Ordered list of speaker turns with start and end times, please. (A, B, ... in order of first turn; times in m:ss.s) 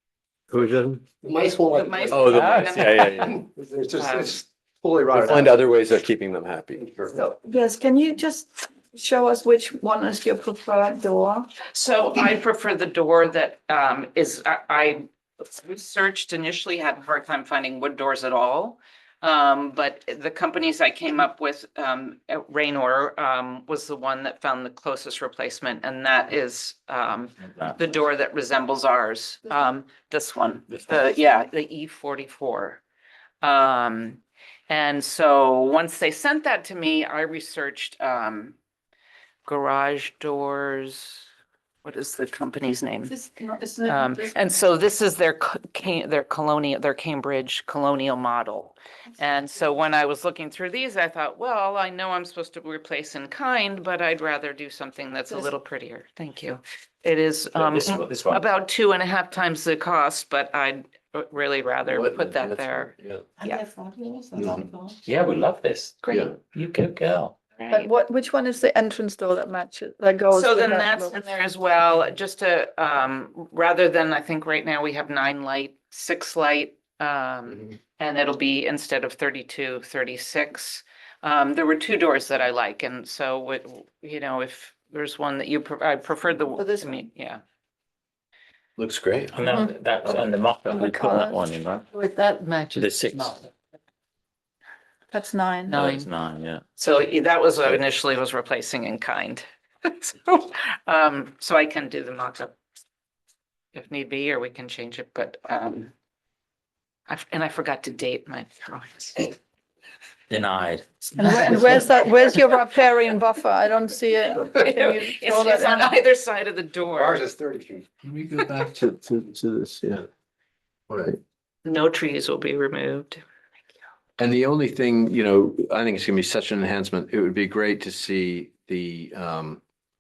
0:00.5-0:01.1 A
0:01.2-0:05.5 B
0:01.5-0:03.3 C
0:02.1-0:03.4 A
0:02.3-0:03.3 D
0:04.0-0:04.4 C
0:05.1-0:06.9 A
0:06.9-0:07.1 B
0:07.1-0:11.5 E
0:11.7-0:32.8 C
0:33.4-0:38.6 C
0:39.4-0:41.3 C
0:41.8-0:43.2 C
0:43.1-0:44.4 E
0:43.8-1:03.6 C
0:57.6-0:58.4 D
1:01.8-1:03.2 A
1:03.4-1:05.0 E
1:04.4-1:04.7 A
1:05.0-1:07.4 D
1:06.0-1:06.3 C
1:06.1-1:06.4 A
1:07.6-1:07.9 C
1:07.7-1:11.2 E
1:10.3-1:27.4 C
1:26.6-1:26.8 E
1:28.8-1:29.4 A
1:29.3-1:31.9 D
1:29.5-1:29.7 E
1:30.7-1:31.4 E
1:32.7-1:33.4 D
1:35.1-1:35.7 E
1:35.7-1:36.1 C
1:35.7-1:36.6 D
1:36.8-1:42.6 C
1:43.7-1:45.9 C
1:47.1-1:49.4 C
1:50.3-1:50.8 D
1:51.2-1:55.8 E
1:54.3-1:57.2 C
1:57.0-2:00.1 A
2:00.9-2:01.2 A
2:01.6-2:03.2 C
2:04.2-2:09.6 A